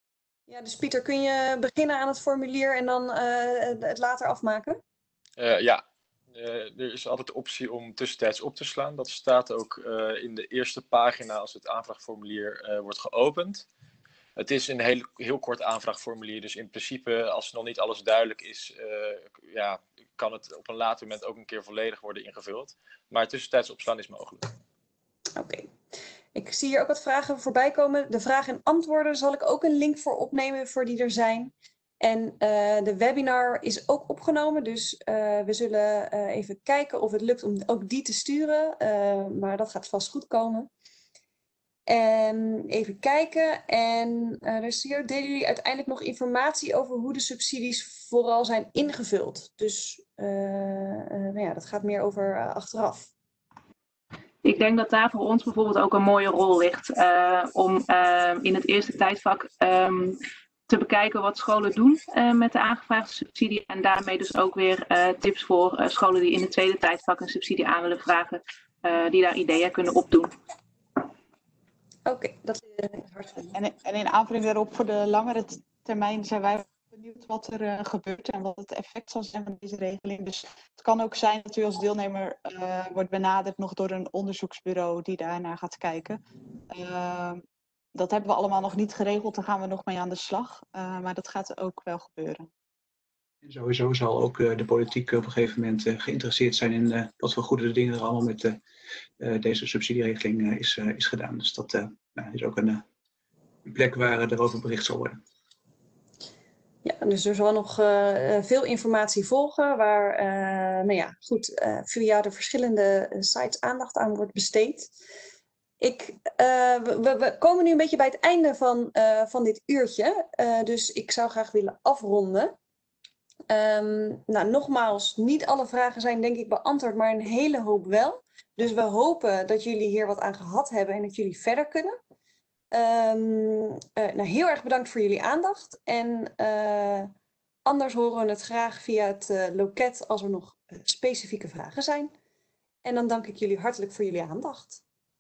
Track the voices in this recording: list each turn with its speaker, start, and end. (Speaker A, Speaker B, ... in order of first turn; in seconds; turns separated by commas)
Speaker A: 0.5-4.8, Speaker B: 5.4-13.7, Speaker B: 14.4-24.5, Speaker A: 25.4-25.7, Speaker A: 26.3-40.7, Speaker A: 41.9-53.1, Speaker C: 54.4-70.3, Speaker A: 72.1-73.5, Speaker D: 73.5-86.2, Speaker D: 86.7-87.4, Speaker D: 88.0-92.5, Speaker E: 93.4-98.6, Speaker E: 99.2-102.8, Speaker E: 103.7-105.2, Speaker A: 106.8-114.9, Speaker A: 115.8-122.5, Speaker A: 123.5-132.0, Speaker A: 132.7-137.1, Speaker A: 137.7-142.1, Speaker A: 142.8-144.8